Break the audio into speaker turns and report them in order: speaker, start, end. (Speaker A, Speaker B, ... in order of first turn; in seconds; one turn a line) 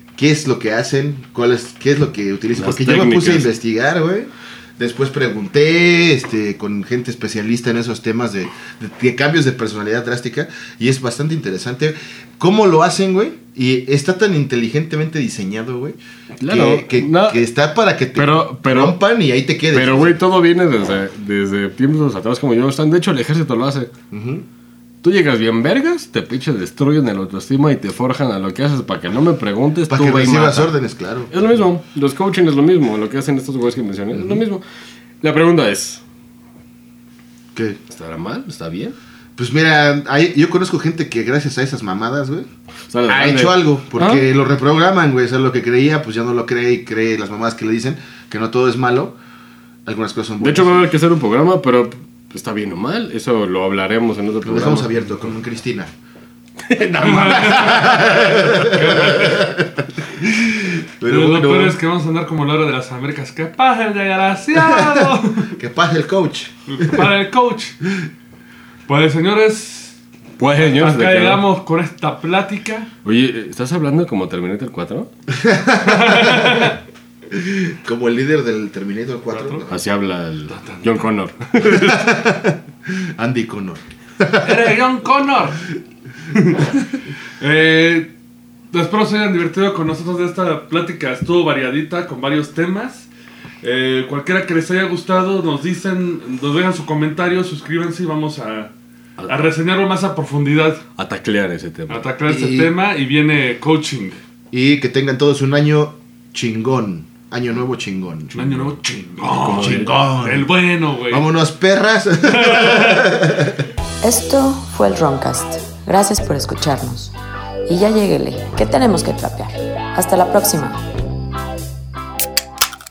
Speaker A: 0.1-20.2
Speaker B: 2.5-3.5
Speaker B: 16.4-17.4
Speaker B: 18.1-19.0
Speaker B: 19.7-23.9
Speaker A: 24.1-24.4
Speaker B: 25.0-30.7
Speaker A: 29.9-31.3
Speaker B: 31.3-34.6
Speaker A: 34.1-34.4
Speaker B: 35.2-36.0
Speaker B: 37.9-39.0
Speaker A: 39.4-42.5
Speaker B: 42.9-44.2
Speaker A: 43.1-49.1
Speaker A: 49.9-50.9
Speaker B: 50.4-54.9
Speaker A: 54.4-55.9
Speaker B: 56.6-58.9
Speaker C: 57.0-59.4
Speaker A: 57.0-61.8
Speaker C: 61.0-65.5
Speaker A: 64.5-67.1
Speaker C: 66.7-67.8
Speaker C: 68.9-70.0
Speaker B: 70.4-71.4
Speaker C: 70.5-72.9
Speaker B: 73.0-75.1
Speaker A: 75.3-76.7
Speaker C: 75.8-76.8
Speaker A: 77.3-79.8
Speaker C: 79.3-79.6
Speaker B: 79.7-82.1
Speaker C: 80.5-81.0
Speaker A: 81.6-84.7
Speaker C: 84.4-85.6
Speaker C: 86.3-86.9
Speaker C: 87.4-88.1
Speaker C: 88.7-93.1
Speaker C: 93.6-98.7
Speaker B: 99.2-99.5
Speaker C: 99.3-100.8
Speaker B: 101.0-102.0
Speaker C: 101.9-104.2
Speaker A: 102.2-102.7
Speaker A: 104.5-108.7
Speaker C: 108.3-111.2
Speaker B: 109.4-109.9
Speaker A: 109.6-110.5
Speaker A: 111.1-113.6
Speaker C: 112.2-113.2
Speaker D: 114.0-117.1
Speaker D: 117.7-120.8